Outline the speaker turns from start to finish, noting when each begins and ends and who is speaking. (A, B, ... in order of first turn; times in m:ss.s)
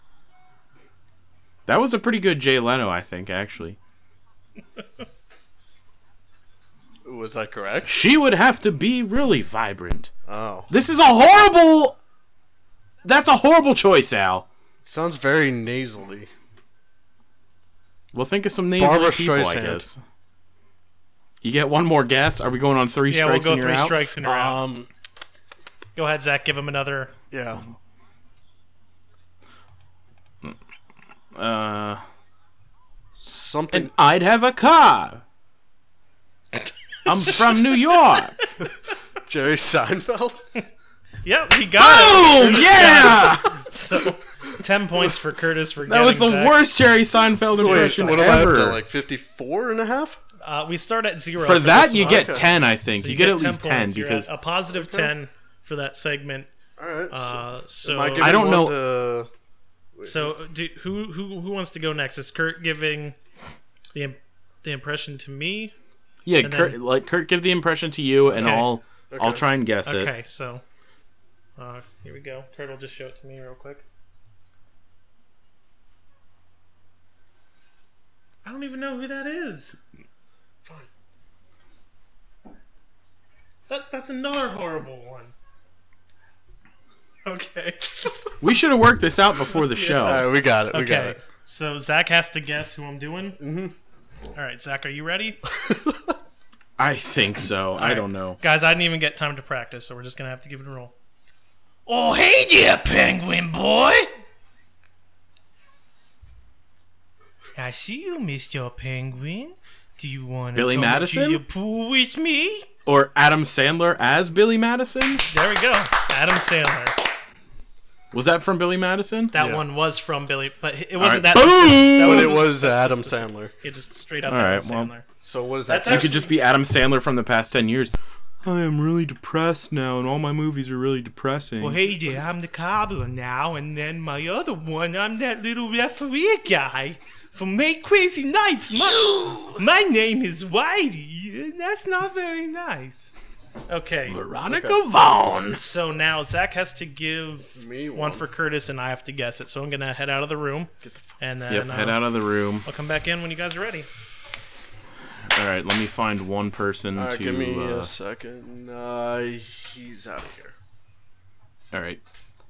0:01.7-0:03.8 A
0:07.0-0:08.0 B
0:07.9-0:10.1 A
0:10.3-0:10.7 B
0:10.7-0:12.0 A
0:13.0-0:14.4 A
0:14.8-0:16.3 B
0:18.1-0:20.0 A
0:18.8-0:19.9 B
0:21.4-0:24.0 A
0:23.1-0:24.6 C
0:24.2-0:24.9 B
0:26.0-0:27.1 C
0:27.3-0:27.6 B
0:31.3-0:32.0 A
0:33.2-0:33.9 B
0:33.7-0:35.2 A
0:37.0-0:38.4 A
0:37.1-0:37.5 C
0:39.2-0:40.4 B
0:41.2-0:46.7 C
0:41.8-0:43.6 A
0:45.8-0:48.8 A
0:47.5-0:50.2 B
0:47.5-0:48.3 C
0:50.4-0:56.5 C
0:51.4-0:54.3 A
0:52.0-0:52.4 B
0:54.7-0:55.1 B
0:56.8-0:59.3 B
0:57.1-0:58.4 C
0:58.2-0:58.8 A
0:59.9-1:00.3 B
1:00.0-1:03.2 C
1:03.9-1:05.7 C
1:06.2-1:10.1 A
1:06.4-1:06.8 C
1:08.3-1:08.7 C
1:09.1-1:09.4 B
1:09.8-1:10.6 C
1:11.6-1:13.8 C
1:18.4-1:19.8 C
1:23.7-1:25.3 C
1:27.2-1:28.2 C
1:28.4-1:30.3 A
1:29.5-1:30.1 C
1:30.0-1:31.2 B
1:30.7-1:33.4 C
1:33.4-1:33.7 B
1:34.3-1:35.4 C
1:35.5-1:36.1 B
1:36.8-1:38.4 A
1:37.8-1:40.9 C
1:41.9-1:44.1 C
1:47.6-1:52.7 C
1:50.5-1:51.4 A
1:52.8-1:55.2 A
1:55.2-1:57.0 C
1:58.1-1:59.3 A
1:59.3-2:05.1 C
1:59.3-1:59.6 B
2:01.0-2:02.4 A
2:02.0-2:03.5 B
2:04.2-2:04.9 A
2:05.2-2:06.3 B
2:05.7-2:06.3 C
2:05.8-2:11.9 A
2:11.6-2:23.1 C
2:19.0-2:19.6 A
2:23.7-2:24.2 C
2:24.1-2:25.6 A
2:24.5-2:24.8 B
2:25.5-2:32.0 C
2:27.5-2:28.2 B
2:30.8-2:31.1 B
2:31.5-2:32.6 A
2:32.6-2:33.9 C
2:35.3-2:37.9 A
2:36.9-2:40.6 B
2:41.7-2:42.0 A